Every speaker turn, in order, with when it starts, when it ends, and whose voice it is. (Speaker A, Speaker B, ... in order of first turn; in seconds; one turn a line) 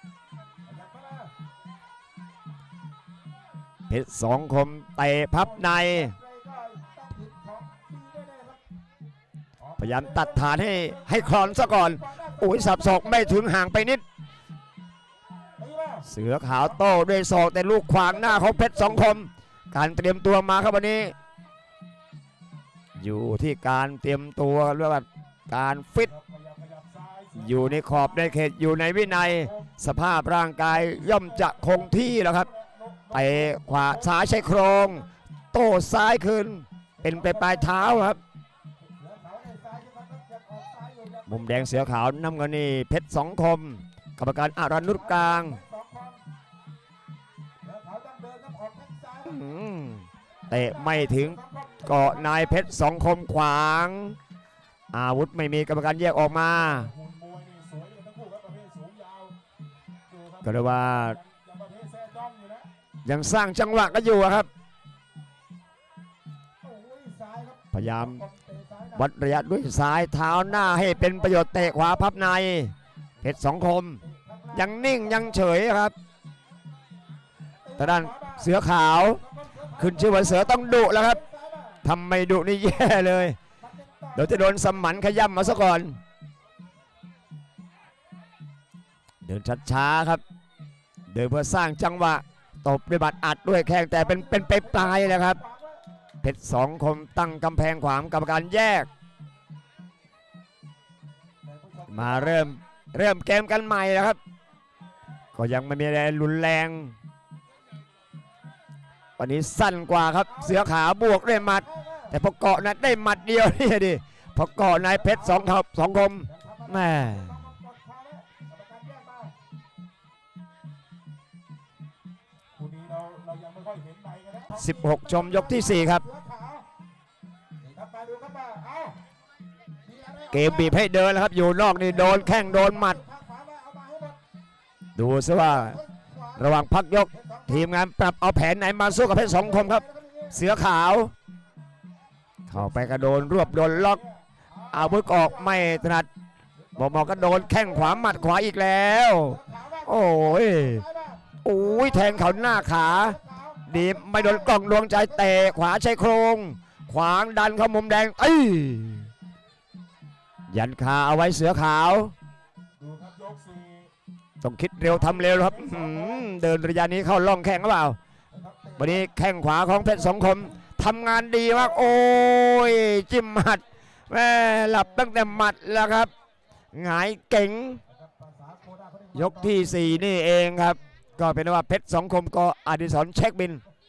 Speaker A: 0.7-1.3
Speaker B: 3.9-6.2
Speaker A: 5.3-8.6
Speaker A: 9.6-13.4
Speaker B: 9.8-14.0
Speaker A: 15.6-17.0
Speaker B: 16.1-21.1
Speaker A: 18.0-19.2
Speaker B: 23.0-26.1
Speaker A: 26.0-28.4
Speaker B: 27.4-32.5
Speaker A: 29.1-29.8
Speaker A: 30.7-35.1
Speaker B: 33.1-38.2
Speaker A: 37.0-37.8
Speaker A: 38.8-41.9
Speaker B: 41.3-45.6
Speaker A: 44.9-46.2
Speaker A: 47.6-49.5
Speaker B: 49.3-54.2
Speaker A: 50.5-52.8
Speaker B: 54.9-56.9
Speaker A: 56.5-59.4
Speaker A: 60.1-62.7
Speaker B: 60.4-61.2
Speaker B: 63.0-64.5
Speaker A: 66.6-69.1
Speaker B: 67.7-68.2
Speaker B: 69.0-74.0
Speaker A: 70.3-72.3
Speaker A: 74.0-75.5
Speaker B: 74.5-76.0
Speaker A: 77.7-81.8
Speaker B: 77.8-79.2
Speaker B: 79.8-81.2
Speaker B: 81.8-83.4
Speaker A: 83.6-85.4
Speaker B: 84.2-86.0
Speaker B: 89.2-90.2
Speaker B: 91.1-95.4
Speaker A: 93.9-95.8
Speaker B: 96.2-98.9
Speaker A: 101.4-102.5
Speaker B: 101.9-104.2
Speaker B: 105.3-107.0
Speaker B: 109.2-117.3
Speaker A: 110.3-112.2
Speaker A: 115.0-115.5
Speaker A: 116.3-119.4
Speaker A: 122.5-126.7
Speaker B: 124.5-126.0
Speaker A: 127.6-129.0
Speaker A: 129.8-130.8
Speaker B: 130.3-133.0
Speaker A: 131.7-134.2
Speaker B: 135.0-135.8
Speaker A: 135.4-136.5
Speaker B: 136.4-141.1
Speaker A: 137.1-137.7
Speaker A: 138.9-140.4
Speaker B: 142.5-144.0
Speaker A: 142.5-145.9
Speaker B: 144.7-146.1
Speaker A: 146.7-148.4
Speaker B: 146.8-150.8
Speaker A: 149.2-155.6
Speaker B: 151.4-153.2
Speaker B: 153.7-159.1
Speaker B: 160.5-162.1
Speaker A: 162.8-163.9
Speaker B: 164.4-168.0
Speaker A: 164.9-166.4
Speaker A: 168.3-169.1
Speaker B: 168.8-176.1
Speaker A: 169.8-170.4
Speaker B: 176.7-177.8
Speaker A: 177.9-179.9
Speaker B: 179.2-183.6